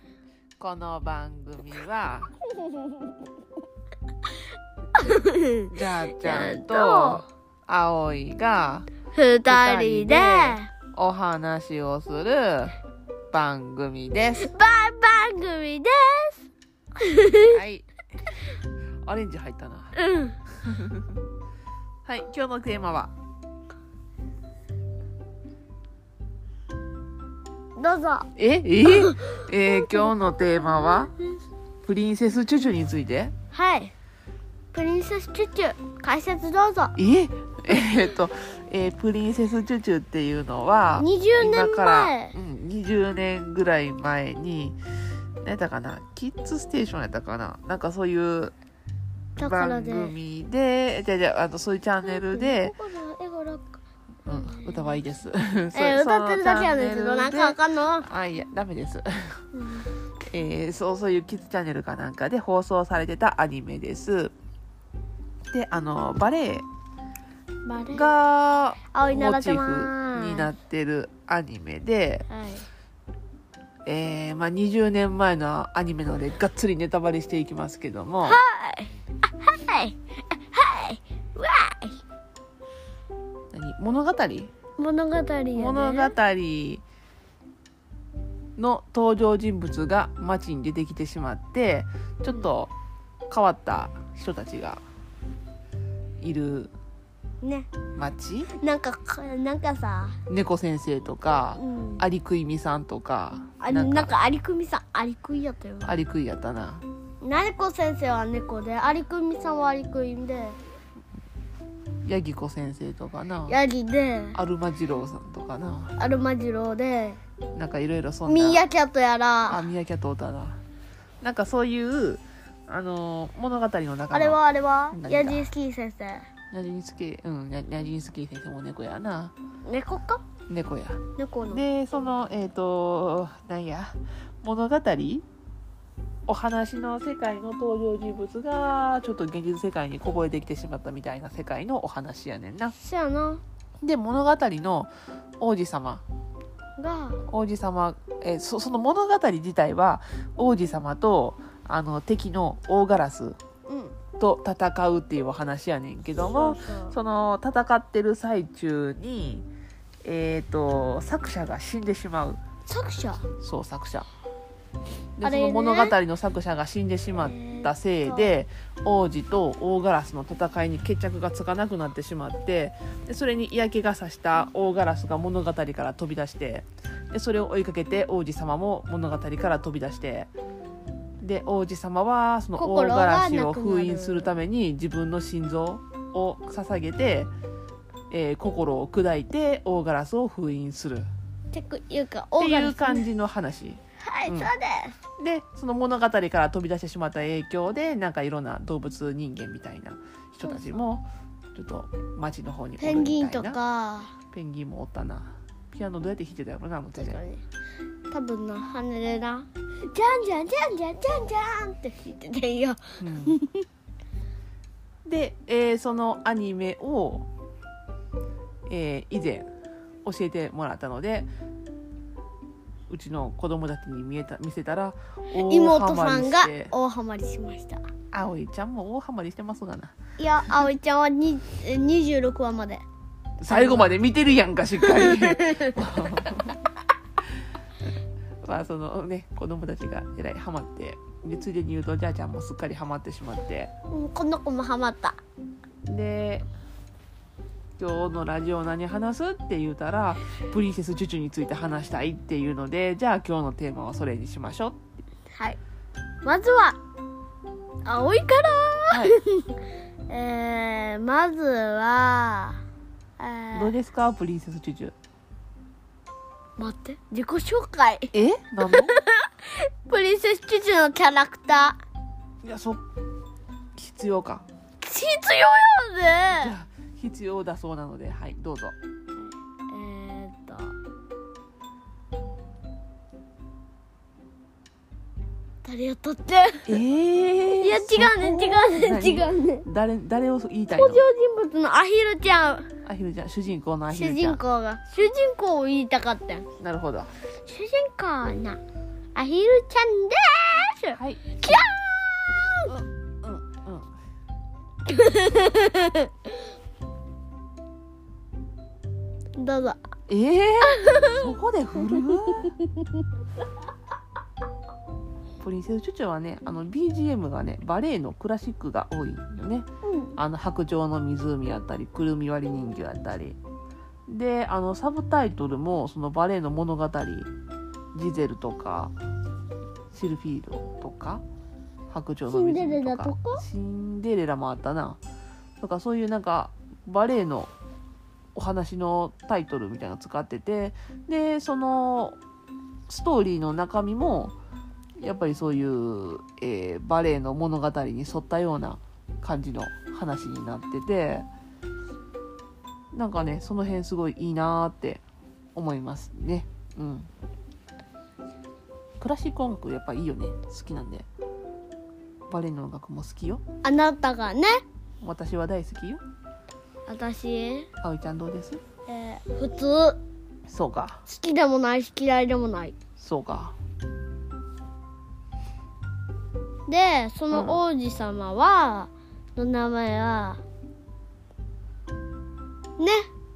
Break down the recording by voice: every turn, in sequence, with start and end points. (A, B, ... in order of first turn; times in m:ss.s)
0:00.6-0:02.3 A
0:05.0-0:07.2 B
0:05.7-0:08.9 A
0:09.1-0:10.7 B
0:09.5-0:12.8 A
0:13.3-0:14.5 A
0:14.4-0:16.4 B
0:17.0-0:17.6 B
0:17.5-0:17.9 A
0:19.0-0:19.9 A
0:19.9-0:20.4 B
0:20.6-0:21.2 A
0:22.0-0:23.1 A
0:27.8-0:28.3 B
0:28.4-0:31.1 A
0:28.9-0:30.1 B
0:31.8-0:33.3 A
0:33.5-0:33.9 B
0:34.7-0:36.9 B
0:37.0-0:44.8 A
0:41.0-0:42.3 B
0:45.4-0:48.5 A
0:49.4-0:50.1 B
0:49.4-0:52.8 A
0:52.0-0:55.0 B
0:54.3-0:59.4 A
0:55.7-0:58.1 B
0:59.5-0:59.9 B
1:00.3-1:04.3 A
1:05.5-1:06.7 A
1:07.6-1:08.1 B
1:07.9-1:12.3 A
1:08.9-1:10.5 B
1:12.3-1:12.7 B
1:13.8-1:18.4 A
1:18.2-1:22.0 B
1:23.5-1:24.5 A
1:24.8-1:26.1 B
1:25.6-1:26.8 A
1:28.6-1:32.7 A
1:33.3-1:34.8 A
1:36.2-1:36.7 A
1:37.4-1:37.7 B
1:38.0-1:38.5 A
1:38.6-1:40.2 B
1:40.3-1:44.1 A
1:41.6-1:42.0 B
1:43.6-1:45.9 B
1:45.8-1:46.8 A
1:47.2-1:50.6 B
1:52.0-1:53.6 A
1:53.5-1:54.4 B
1:54.3-1:55.9 A
1:56.0-1:57.2 B
1:57.6-1:58.6 A
1:58.2-1:59.6 B
1:59.5-2:00.6 A
2:01.2-2:04.4 A
2:04.1-2:06.3 B
2:04.9-2:05.5 A
2:06.5-2:09.3 A
2:09.6-2:10.2 B
2:10.5-2:15.2 A
2:11.2-2:11.6 B
2:16.3-2:22.8 A
2:22.8-2:23.4 B
2:23.8-2:26.0 A
2:26.8-2:27.2 B
2:27.3-2:33.4 A
2:33.7-2:34.0 B
2:34.2-2:39.5 A
2:36.2-2:37.0 B
2:40.0-2:42.4 A
2:42.7-2:43.3 B
2:43.4-2:44.1 A
2:45.2-3:00.3 A
2:45.2-2:46.0 B
2:47.2-2:48.3 B
3:01.2-3:07.3 A
3:02.6-3:04.3 B
3:08.1-3:11.1 A
3:11.5-3:13.1 B
3:12.4-3:14.5 A
3:14.0-3:14.9 B
3:15.2-3:23.6 A
3:20.5-3:20.8 B
3:22.8-3:24.1 B
3:24.3-3:27.2 A
3:27.0-3:27.4 B
3:28.1-3:33.6 B
3:33.0-3:33.4 A
3:35.0-3:37.3 A
3:38.7-3:39.5 A
3:40.0-3:41.3 A
3:42.9-3:46.7 A
3:45.4-3:47.8 B
3:48.1-3:49.9 A
3:50.2-3:52.8 B
3:53.4-3:56.6 A
3:53.5-3:54.0 B
3:54.8-3:55.8 B
3:58.4-4:03.7 A
4:03.9-4:05.2 B
4:05.8-4:06.5 A
4:07.8-4:14.8 A
4:16.2-4:16.8 B
4:17.8-4:19.4 B
4:18.9-4:19.2 A
4:20.1-4:22.6 B
4:23.2-4:23.7 B
4:23.5-4:24.9 A
4:26.6-4:28.1 B
4:28.1-4:28.9 A
4:28.7-4:31.8 B
4:32.4-4:32.8 A
4:33.8-4:34.4 A
4:34.8-4:36.5 B
4:36.3-4:38.8 A
4:39.7-4:40.8 B
4:45.6-4:46.8 B
4:46.6-4:51.0 A
4:47.6-4:49.6 B
4:50.7-4:52.7 B
4:52.8-4:54.4 A
4:53.9-4:56.5 B
4:56.6-4:57.1 A
4:57.4-4:58.6 B
4:59.1-5:02.8 B
5:00.9-5:01.6 A
5:03.2-5:03.9 A
5:04.9-5:06.1 B
5:09.4-5:09.8 B
5:10.1-5:12.6 A
5:10.8-5:11.2 B
5:15.4-5:23.4 A
5:19.8-5:20.1 B
5:24.1-5:27.3 A
5:27.9-5:28.9 A
5:29.9-5:31.2 A
5:31.9-5:35.0 A
5:32.3-5:33.4 B
5:35.6-5:37.5 A
5:38.3-5:42.2 A
5:42.9-5:44.4 A
5:45.0-5:51.3 A
5:52.9-5:55.0 A
5:55.5-5:57.1 A
5:59.0-6:01.1 A
6:02.3-6:03.4 A
6:03.6-6:04.6 B
6:05.0-6:06.0 A
6:06.9-6:07.7 B
6:07.8-6:08.6 A
6:08.8-6:10.0 B
6:10.5-6:11.0 A
6:11.1-6:12.8 B
6:13.0-6:13.5 A
6:16.7-6:20.4 B
6:17.3-6:17.6 A
6:22.8-6:23.1 B